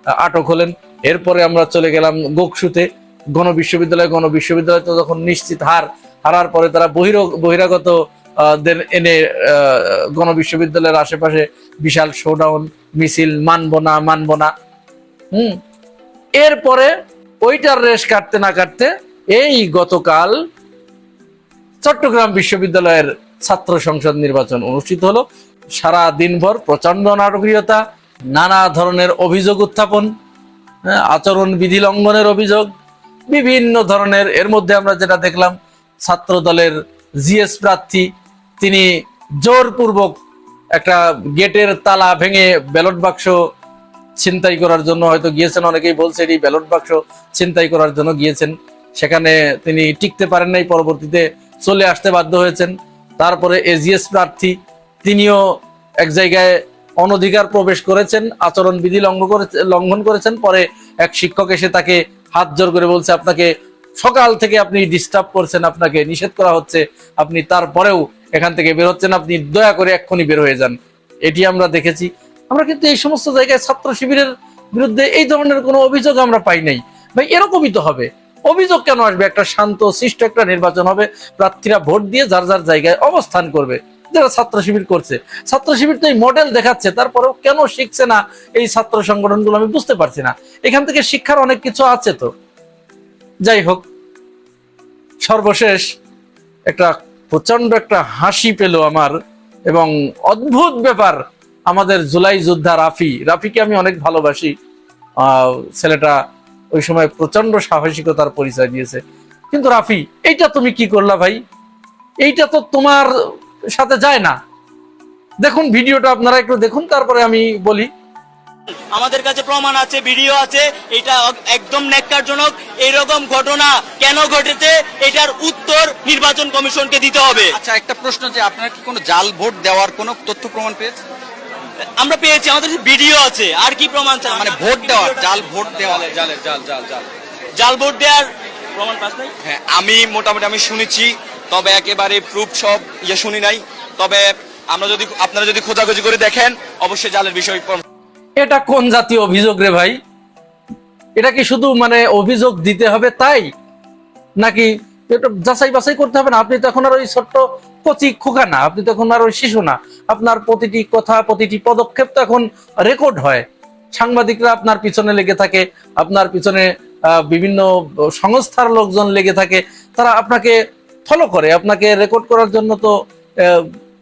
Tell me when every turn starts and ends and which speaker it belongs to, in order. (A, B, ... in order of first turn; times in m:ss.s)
0:00.2-0:14.5 A
0:15.3-0:15.6 A
0:16.4-0:20.4 A
0:21.8-0:25.2 A
0:25.8-0:27.8 A
0:28.4-0:30.1 A
0:31.1-0:32.7 A
0:33.3-0:38.1 A
0:38.6-0:38.9 A
0:39.4-0:40.2 A
0:40.8-0:43.4 A
0:44.2-0:55.4 A
0:56.0-1:32.3 A
1:33.5-1:33.8 A
1:35.2-1:35.9 A
1:36.7-1:39.2 A
1:39.7-1:44.6 A
1:45.2-1:46.2 A
1:46.8-1:49.0 A
1:49.5-1:51.4 A
1:52.2-1:53.1 A
1:53.7-1:54.4 A
1:55.4-1:57.9 A
1:58.9-2:07.6 B
2:07.5-2:11.0 C
2:12.0-2:16.2 B
2:14.3-2:17.1 C
2:17.6-2:19.3 B
2:19.4-2:27.8 C
2:28.4-2:30.0 A
2:31.2-2:33.5 A
2:34.4-2:53.7 A